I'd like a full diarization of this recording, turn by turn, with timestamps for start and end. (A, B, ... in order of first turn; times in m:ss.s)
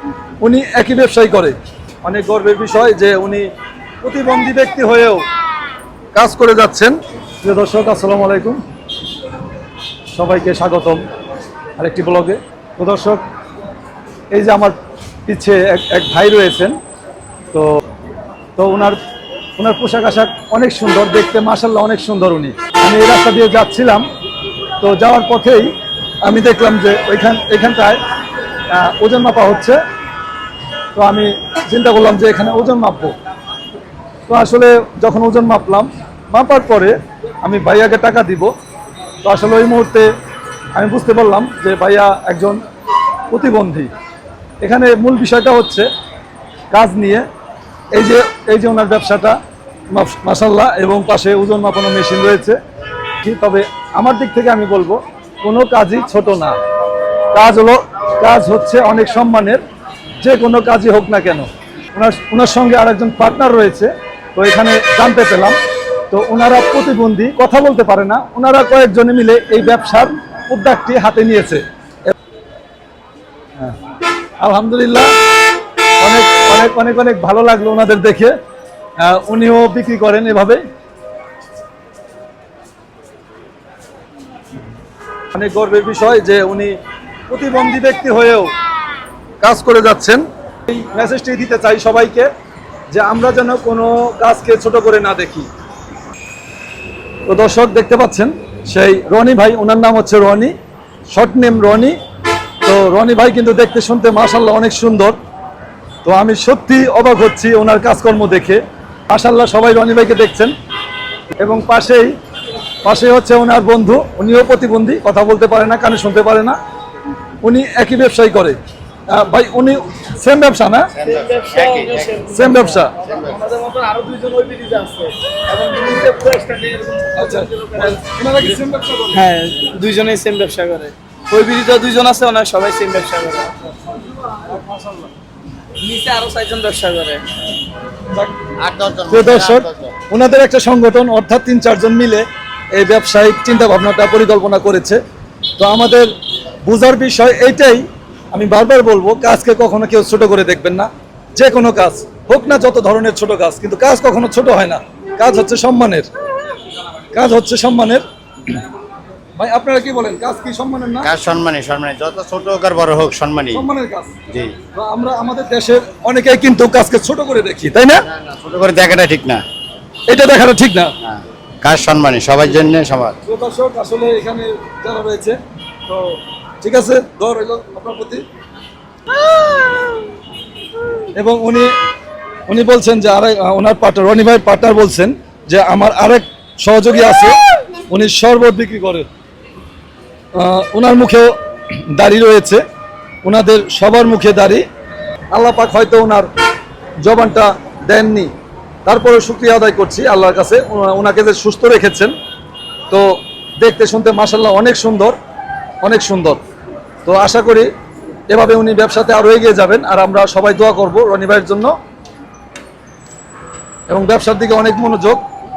0:00.4-0:03.5 A
0:04.0-0:05.2 A
0:06.1-0:08.6 A
0:10.1-0:11.0 A
0:11.8-0:13.2 A
0:14.3-0:14.8 A
0:15.3-0:16.8 A
0:18.6-0:19.0 A
0:19.6-0:24.1 A
0:24.8-0:28.0 A
0:28.7-0:29.8 A
0:31.0-0:33.2 A
0:34.3-0:38.5 A
0:39.2-0:40.1 A
0:40.8-0:42.6 A
0:43.3-0:43.9 A
0:44.6-0:45.9 A
0:46.7-0:47.2 A
0:47.9-0:49.4 A
0:49.9-0:52.6 A
0:53.2-0:56.6 A
0:57.3-0:59.6 A
1:00.2-1:05.6 A
1:06.1-1:12.1 A
1:14.4-1:15.1 A
1:16.0-1:18.4 A
1:19.0-1:20.6 A
1:25.3-1:26.8 A
1:27.3-1:28.5 A
1:29.4-1:32.3 A
1:32.9-1:35.5 A
1:37.3-1:40.6 A
1:41.1-1:42.0 A
1:42.6-1:45.2 A
1:46.0-1:50.5 A
1:51.4-1:52.2 A
1:52.8-1:56.6 A
1:57.4-1:58.6 A
1:59.1-2:00.9 A
2:01.0-2:02.3 B
2:01.0-2:08.0 C
2:02.3-2:03.0 A
2:03.0-2:03.4 B
2:07.1-2:09.2 A
2:09.1-2:13.8 C
2:14.3-2:15.1 A
2:15.8-2:17.2 C
2:18.6-2:20.0 B
2:19.1-2:25.0 A
2:25.6-2:26.1 A
2:26.6-2:36.1 A
2:37.1-2:38.0 A
2:39.4-2:41.1 A
2:41.0-2:43.6 B
2:43.5-2:44.2 A
2:44.3-2:44.5 B
2:44.7-2:48.1 A
2:48.1-2:49.4 B
2:50.1-2:50.9 A
2:51.0-2:53.2 B
2:53.3-2:55.4 A
2:56.6-2:58.2 A
3:01.2-3:01.7 A
3:02.5-3:07.4 A
3:07.9-3:09.1 A
3:10.4-3:12.6 A
3:13.2-3:14.6 A
3:15.3-3:16.3 A
3:17.0-3:18.3 A
3:18.8-3:22.1 A
3:22.9-3:25.2 A
3:25.8-3:26.4 A
3:27.0-3:27.7 A
3:28.3-3:31.7 A
3:33.9-3:35.2 A